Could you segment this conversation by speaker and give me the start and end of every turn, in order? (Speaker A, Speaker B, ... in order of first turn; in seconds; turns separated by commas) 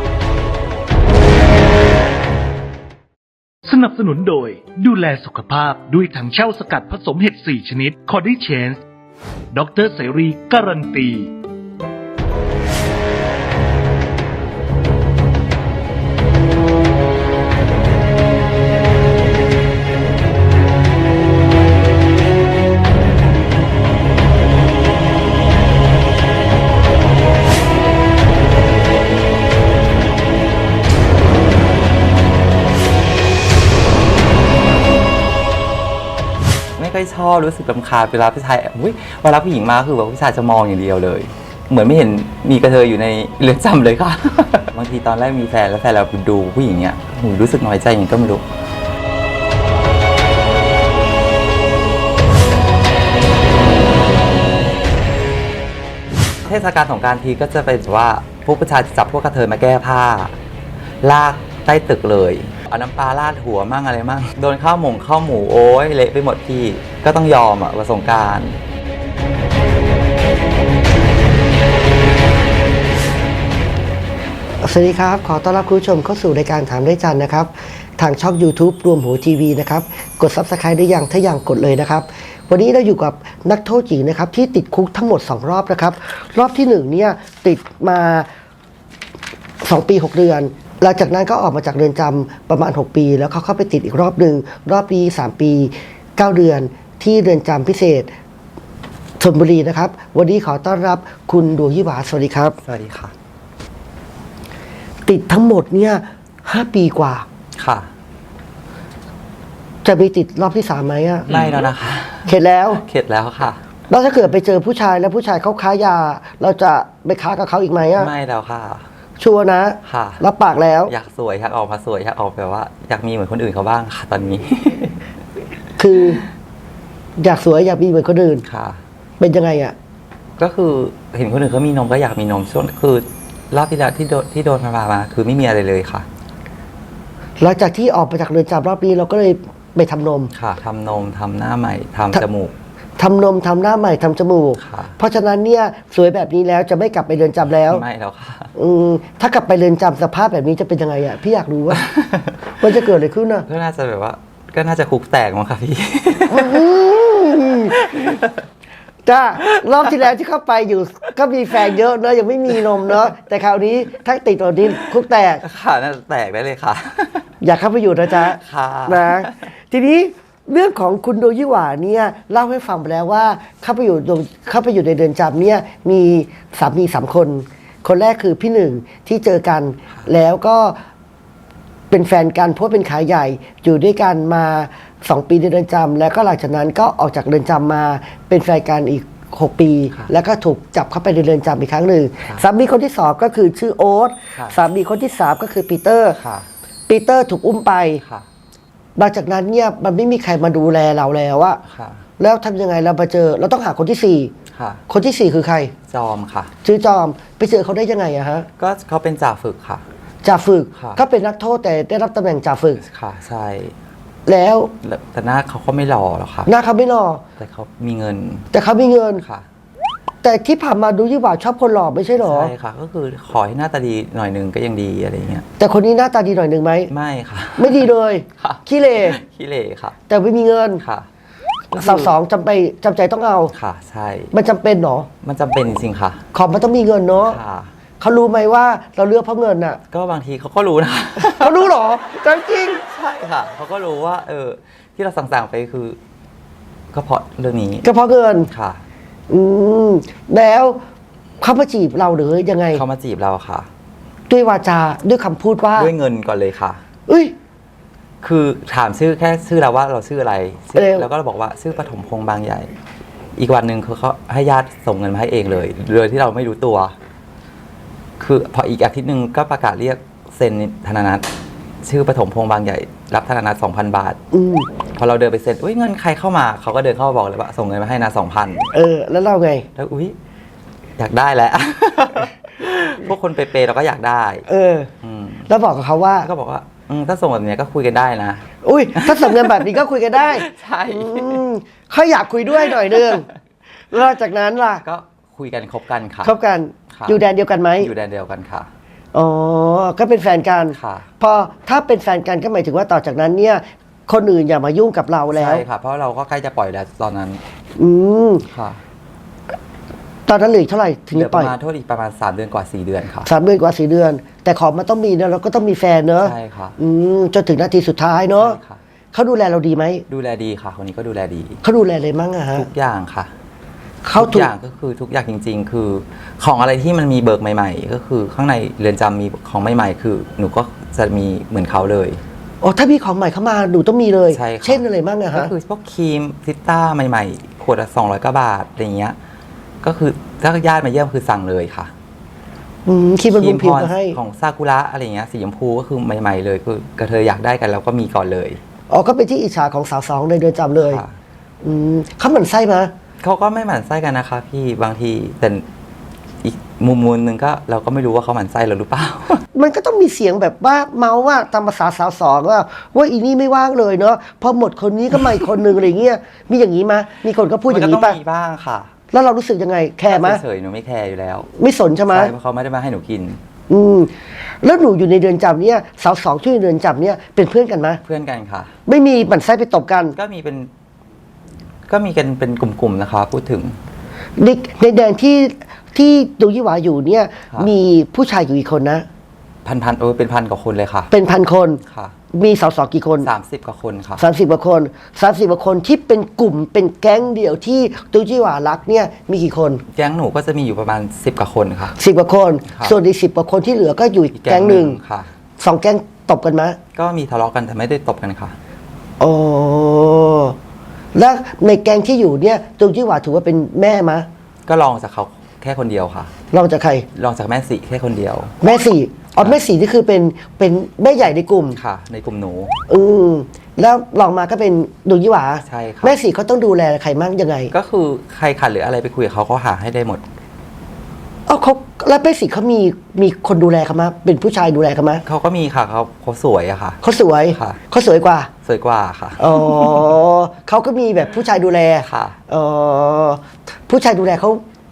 Speaker A: 3.7-8.8, Speaker A: 9.5-11.3, Speaker B: 36.8-48.4, Speaker B: 56.4-60.3, Speaker B: 61.0-68.6, Speaker C: 74.6-88.3, Speaker C: 89.6-98.1, Speaker C: 99.2-102.5, Speaker B: 102.7-103.1, Speaker C: 105.0-107.3, Speaker B: 107.6-107.9, Speaker C: 109.8-111.6, Speaker B: 111.3-113.6, Speaker C: 112.3-112.8, Speaker C: 113.9-118.1, Speaker B: 118.0-118.8, Speaker C: 119.2-120.9, Speaker B: 119.8-120.2, Speaker B: 120.9-125.0, Speaker C: 125.8-126.2, Speaker C: 127.2-128.4, Speaker B: 128.4-128.8, Speaker C: 129.2-129.7, Speaker B: 130.4-136.1, Speaker C: 137.4-140.3, Speaker B: 140.3-142.5, Speaker C: 143.0-147.8, Speaker B: 144.6-144.9, Speaker B: 147.6-148.5, Speaker C: 148.6-151.8, Speaker B: 151.7-152.6, Speaker C: 152.6-153.5, Speaker B: 153.5-156.6, Speaker C: 156.3-157.9, Speaker B: 157.7-158.4, Speaker C: 159.0-165.4, Speaker B: 159.5-159.9, Speaker B: 165.4-167.3, Speaker C: 167.4-180.8, Speaker B: 168.2-169.4, Speaker C: 181.9-196.2, Speaker B: 196.2-196.5, Speaker C: 196.9-198.0, Speaker C: 198.9-201.6, Speaker B: 201.7-202.0, Speaker C: 202.2-204.3, Speaker B: 204.5-204.8, Speaker C: 204.9-205.7, Speaker B: 205.9-206.5, Speaker C: 206.6-208.5, Speaker B: 208.6-209.8, Speaker C: 210.2-212.8, Speaker B: 210.7-211.0, Speaker B: 212.8-213.7, Speaker C: 214.2-214.7, Speaker B: 214.8-216.5, Speaker C: 216.5-217.2, Speaker B: 217.4-218.5, Speaker C: 218.5-219.2, Speaker C: 220.2-222.5, Speaker B: 222.2-225.5, Speaker C: 225.6-226.9, Speaker B: 226.9-227.9, Speaker C: 227.6-229.2, Speaker B: 228.4-230.0, Speaker C: 230.1-230.8, Speaker B: 231.7-232.1, Speaker C: 231.8-233.5, Speaker B: 233.5-234.3, Speaker C: 234.3-235.1, Speaker B: 235.2-236.2, Speaker C: 236.3-237.4, Speaker B: 237.2-237.7, Speaker C: 238.0-239.8, Speaker B: 239.9-241.7, Speaker C: 241.2-242.8, Speaker B: 242.6-246.0, Speaker B: 246.9-247.9, Speaker C: 247.8-248.5, Speaker B: 248.5-248.8, Speaker C: 249.3-250.8, Speaker C: 251.4-252.8, Speaker B: 252.7-253.7, Speaker C: 254.3-255.9, Speaker B: 255.8-256.8, Speaker C: 257.1-257.3, Speaker B: 258.2-262.7, Speaker C: 260.7-261.1, Speaker B: 263.4-266.9, Speaker B: 268.2-271.2, Speaker B: 271.8-274.2, Speaker C: 274.3-274.7, Speaker B: 275.0-278.7, Speaker C: 278.7-279.7, Speaker B: 279.8-280.1, Speaker B: 281.0-284.4, Speaker C: 284.5-284.9, Speaker B: 285.0-285.5, Speaker C: 285.5-286.3, Speaker B: 286.2-291.4, Speaker C: 288.6-293.2, Speaker C: 293.9-294.8, Speaker B: 294.8-296.3, Speaker C: 296.2-297.9, Speaker B: 297.8-298.7, Speaker C: 299.1-305.6, Speaker B: 300.7-301.1, Speaker B: 305.3-307.4, Speaker C: 307.8-308.4, Speaker B: 308.5-308.8, Speaker C: 310.2-311.5, Speaker B: 311.1-313.3, Speaker C: 313.2-318.6, Speaker B: 316.2-316.8, Speaker B: 318.4-318.8, Speaker C: 319.1-320.1, Speaker B: 320.1-321.6, Speaker C: 321.6-322.7, Speaker B: 322.5-323.3, Speaker C: 324.0-324.5, Speaker B: 324.1-332.2, Speaker C: 332.6-335.5, Speaker B: 334.3-339.1, Speaker B: 339.8-341.9, Speaker C: 342.9-344.2, Speaker B: 343.3-348.6, Speaker C: 348.9-351.0, Speaker B: 350.8-351.1, Speaker C: 351.6-352.9, Speaker B: 353.2-355.6, Speaker B: 356.4-359.4, Speaker C: 359.5-368.2, Speaker B: 367.7-368.9, Speaker C: 369.1-370.4, Speaker B: 370.1-371.5, Speaker C: 371.6-372.3, Speaker B: 372.1-373.4, Speaker C: 373.7-378.0, Speaker B: 378.0-378.7, Speaker C: 378.9-380.1, Speaker B: 380.1-380.7, Speaker B: 381.9-383.8, Speaker C: 384.4-389.1, Speaker B: 389.6-391.1, Speaker C: 391.1-391.8, Speaker B: 391.9-392.1, Speaker C: 392.3-393.3, Speaker B: 393.2-394.2, Speaker C: 394.2-399.8, Speaker B: 399.9-401.9, Speaker C: 402.0-405.0, Speaker B: 402.7-402.9, Speaker B: 404.3-405.3, Speaker C: 405.6-406.8, Speaker B: 406.9-408.5, Speaker C: 409.2-410.6, Speaker C: 411.1-414.3, Speaker B: 414.7-416.3, Speaker C: 416.5-417.1, Speaker B: 417.1-418.5, Speaker C: 418.6-421.8, Speaker B: 421.8-422.8, Speaker C: 422.9-427.7, Speaker B: 425.6-426.2, Speaker B: 427.7-430.2, Speaker C: 431.5-435.2, Speaker B: 435.2-437.0, Speaker C: 437.0-438.5, Speaker B: 437.5-437.8, Speaker B: 438.6-440.0, Speaker C: 439.4-444.6, Speaker B: 442.0-442.4